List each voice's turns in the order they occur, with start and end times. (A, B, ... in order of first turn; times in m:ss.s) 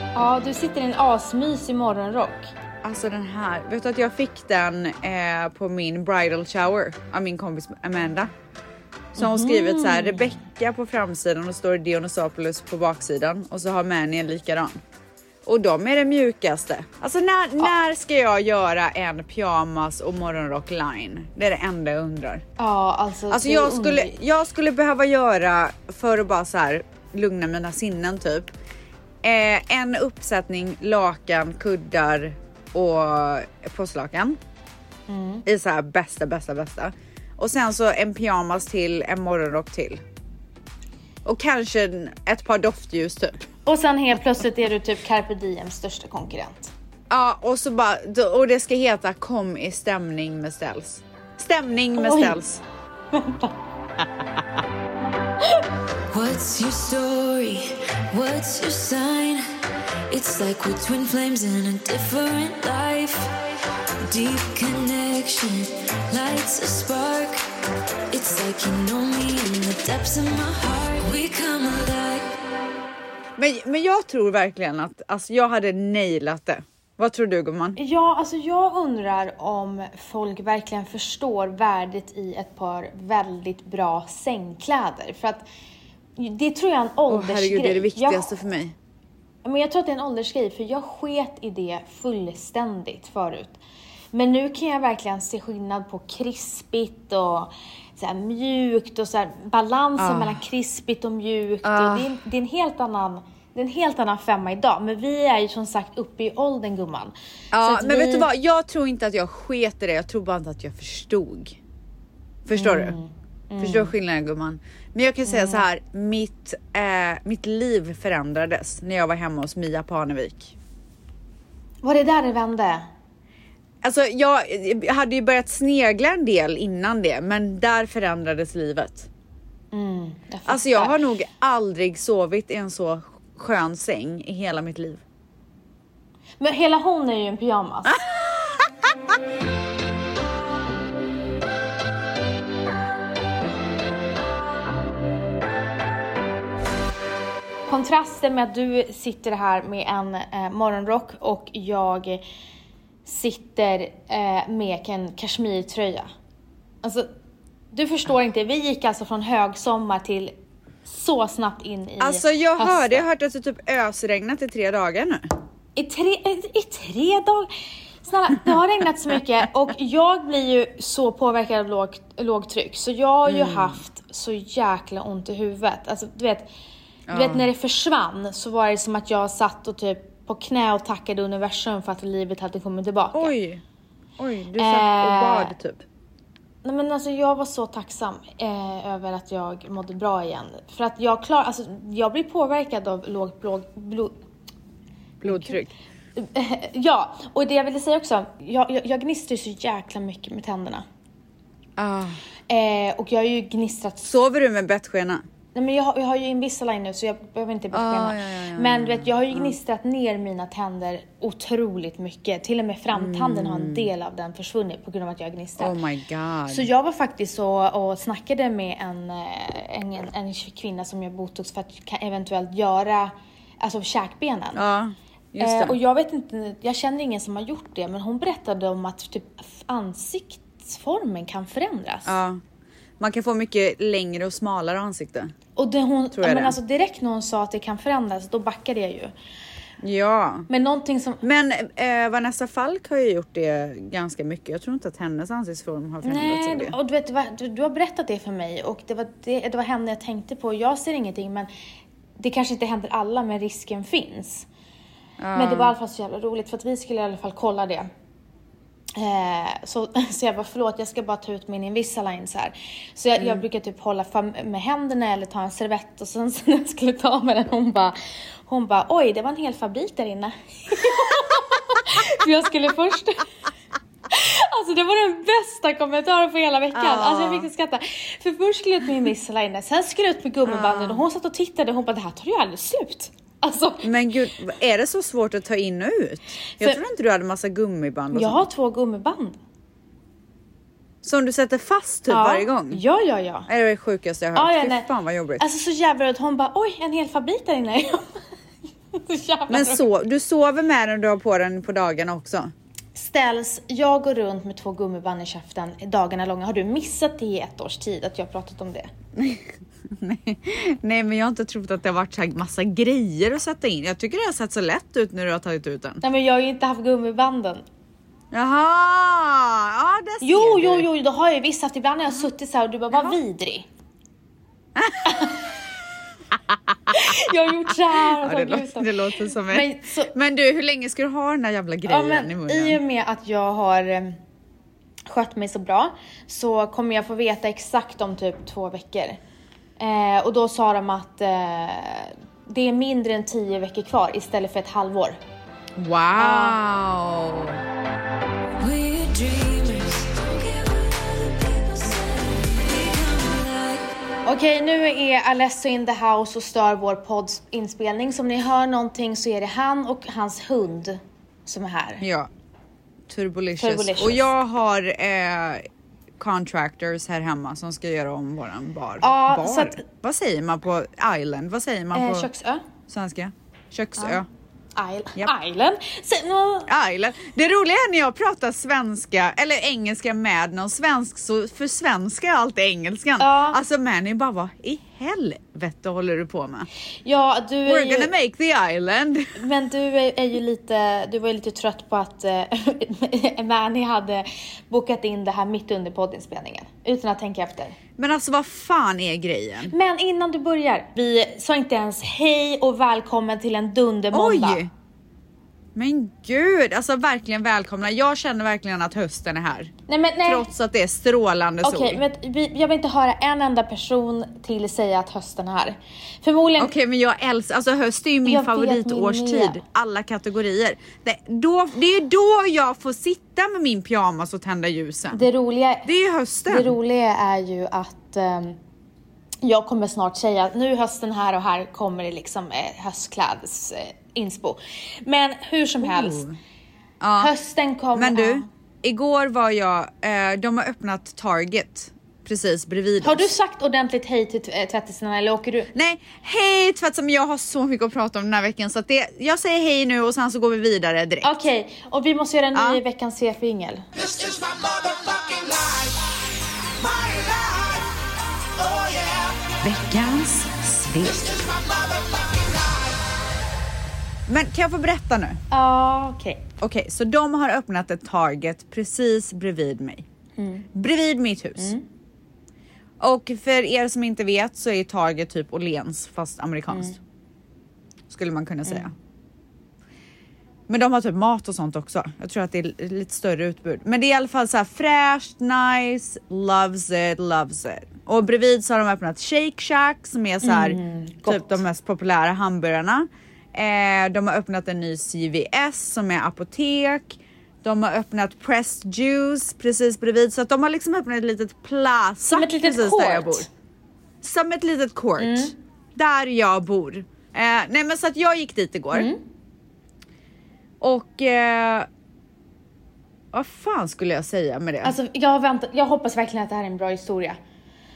0:00.2-0:02.5 A
0:02.8-0:08.3 B
0:09.2-0:10.4 A
0:09.2-0:14.7 B
0:15.4-0:22.4 B
0:22.6-0:24.1 A
0:23.3-0:28.5 B
0:29.2-0:34.4 B
0:35.1-0:35.4 A
0:35.4-0:40.0 B
0:41.2-0:43.4 B
0:43.6-0:46.7 A
0:47.1-0:52.6 B
0:51.9-0:52.4 A
0:53.1-0:53.5 A
0:56.1-0:59.4 C
1:00.1-1:03.3 C
1:04.0-1:07.4 C
1:08.1-1:12.3 C
1:13.4-1:17.8 B
1:17.8-1:25.4 A
1:26.2-1:28.3 A
1:27.1-1:28.7 B
1:29.4-1:33.6 A
1:34.1-1:48.3 A
1:40.0-1:40.4 B
1:41.6-1:42.1 B
1:47.5-1:51.6 B
1:52.4-1:53.0 B
1:52.5-1:53.9 A
1:53.6-2:00.6 B
1:55.2-1:55.6 A
2:01.8-2:02.8 A
2:03.8-2:09.1 B
2:09.7-2:11.0 A
2:10.4-2:15.0 B
2:16.4-2:18.0 A
2:17.9-2:18.9 B
2:27.7-2:32.2 A
2:33.0-2:36.1 A
2:36.8-2:37.1 A
2:37.7-2:40.3 A
2:40.8-2:43.0 A
2:42.0-2:45.2 B
2:45.8-2:47.5 A
2:48.0-2:56.5 A
2:53.3-2:53.8 B
2:57.1-2:57.5 B
2:57.1-3:03.3 A
3:03.1-3:03.6 B
3:04.2-3:05.8 B
3:04.6-3:05.5 A
3:06.6-3:14.2 A
3:15.2-3:15.7 B
3:15.2-3:15.6 A
3:16.2-3:20.8 A
3:21.8-3:22.2 B
3:22.5-3:24.1 A
3:24.0-3:25.2 B
3:25.5-3:35.8 A
3:27.7-3:29.5 B
3:32.9-3:33.9 B
3:35.6-3:36.7 B
3:36.5-3:44.6 A
3:44.5-3:45.8 B
3:45.4-3:52.2 A
3:52.0-3:52.4 B
3:53.0-3:55.3 B
3:55.6-3:59.1 A
3:56.1-3:56.6 B
3:59.8-4:00.5 B
4:00.5-4:01.2 A
4:01.2-4:06.8 B
4:06.0-4:11.5 A
4:12.2-4:14.5 A
4:15.2-4:15.7 B
4:15.3-4:17.9 A
4:19.0-4:33.3 A
4:34.1-4:43.9 A
4:36.7-4:37.5 B
4:40.4-4:41.0 B
4:43.8-4:48.4 B
4:46.5-4:46.8 A
4:48.1-4:49.4 A
4:51.0-4:52.8 B
4:52.1-4:53.5 A
4:53.5-4:55.4 B
4:54.3-4:58.2 A
4:58.9-4:59.8 A
4:59.5-5:02.5 B
5:03.0-5:08.9 A
5:09.2-5:16.0 B
5:16.0-5:17.6 A
5:18.3-5:20.9 B
5:20.2-5:23.7 A
5:24.8-5:25.1 B
5:25.0-5:25.4 A
5:26.5-5:27.3 B
5:26.9-5:30.1 A
5:27.9-5:32.8 B
5:31.8-5:34.2 A
5:35.1-5:39.2 A
5:39.8-5:45.2 A
5:45.8-5:47.6 B
5:46.2-5:46.6 A
5:48.6-5:53.9 C
5:54.2-6:02.0 A
6:02.0-6:02.3 B
6:03.1-6:05.6 B
6:03.6-6:04.2 A
6:06.2-6:12.3 B
6:09.0-6:09.8 A
6:11.9-6:12.6 A
6:12.9-6:14.2 B
6:14.8-6:16.7 A
6:16.7-6:26.7 B
6:23.2-6:23.6 A
6:27.0-6:28.1 A
6:27.6-6:29.4 B
6:29.4-6:37.8 A
6:38.0-6:39.7 B
6:39.7-6:44.6 A
6:44.1-6:44.7 B
6:45.7-6:49.7 B
6:49.9-6:50.4 A
6:50.2-6:52.0 B
6:51.6-6:56.7 A
6:56.6-7:05.3 B
6:58.2-6:59.6 A
7:05.1-7:05.9 A
7:05.8-7:06.8 B
7:06.5-7:08.6 A
7:09.4-7:16.2 A
7:15.8-7:16.4 B
7:17.0-7:17.3 B
7:17.2-7:18.5 A
7:17.9-7:23.3 B
7:23.0-7:25.7 A
7:25.7-7:31.3 B
7:31.2-7:33.8 A
7:32.5-7:32.8 B
7:34.8-7:35.9 B
7:36.9-7:37.8 B
7:38.6-7:41.9 B
7:44.3-7:45.4 B
7:45.5-7:46.4 A
7:46.6-7:50.0 B
7:50.4-7:50.6 A
7:50.7-7:51.7 B
7:51.6-7:51.8 A
7:53.0-7:57.0 B
7:56.7-7:57.0 A
7:58.1-7:58.9 B
8:00.7-8:23.5 B
8:10.4-8:11.6 A
8:22.2-8:23.5 A
8:24.2-8:29.1 B
8:25.2-8:25.5 A
8:28.9-8:29.2 A
8:30.8-8:31.9 B
8:33.3-8:34.9 B
8:34.8-8:37.4 A